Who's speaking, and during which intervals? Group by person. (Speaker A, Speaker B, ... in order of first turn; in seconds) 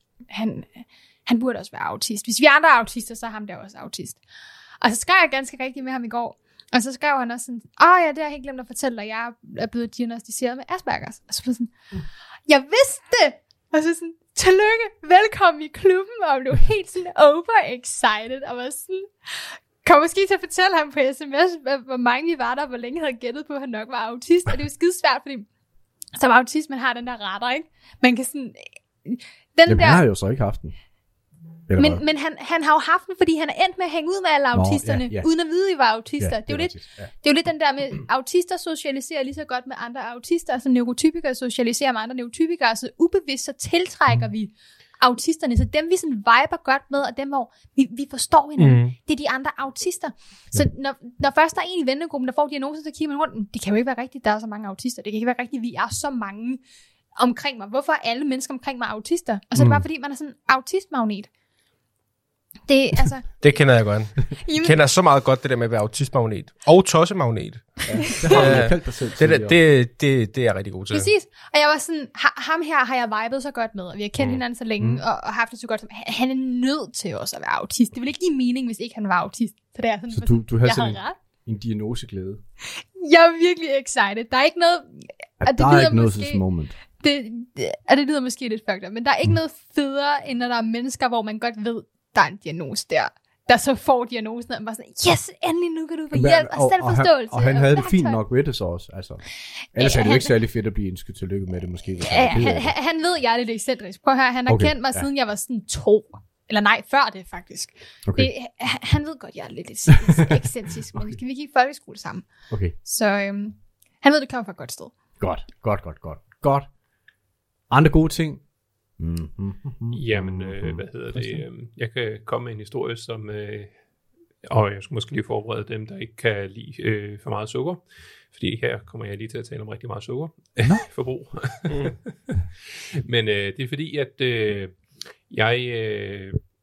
Speaker A: 0.3-4.2, 4.8-11.7, 12.5-25.5, 26.2-30.0, 31.8-56.6, 57.2-61.3, 62.7-63.4, 64.3-64.8, 68.2-68.5, 70.9-81.2, 82.8-86.4, 87.0-98.2, 99.8-100.3, 102.0-112.3, 112.8-114.9
Speaker B: 29.7-30.8, 31.7-32.0, 34.5-35.3, 36.2-37.1, 59.6-59.9, 67.9-69.6, 74.8-75.0, 80.1-82.4, 85.4-86.7, 96.1-102.7, 104.5-105.1, 108.1-108.3, 110.0-111.2, 112.5-112.8, 115.2-116.7, 117.7-118.4, 119.0-121.4, 130.6-130.9
Speaker C: 48.6-49.0, 63.4-71.1
Speaker D: 119.9-123.7, 124.4-132.4, 133.0-136.4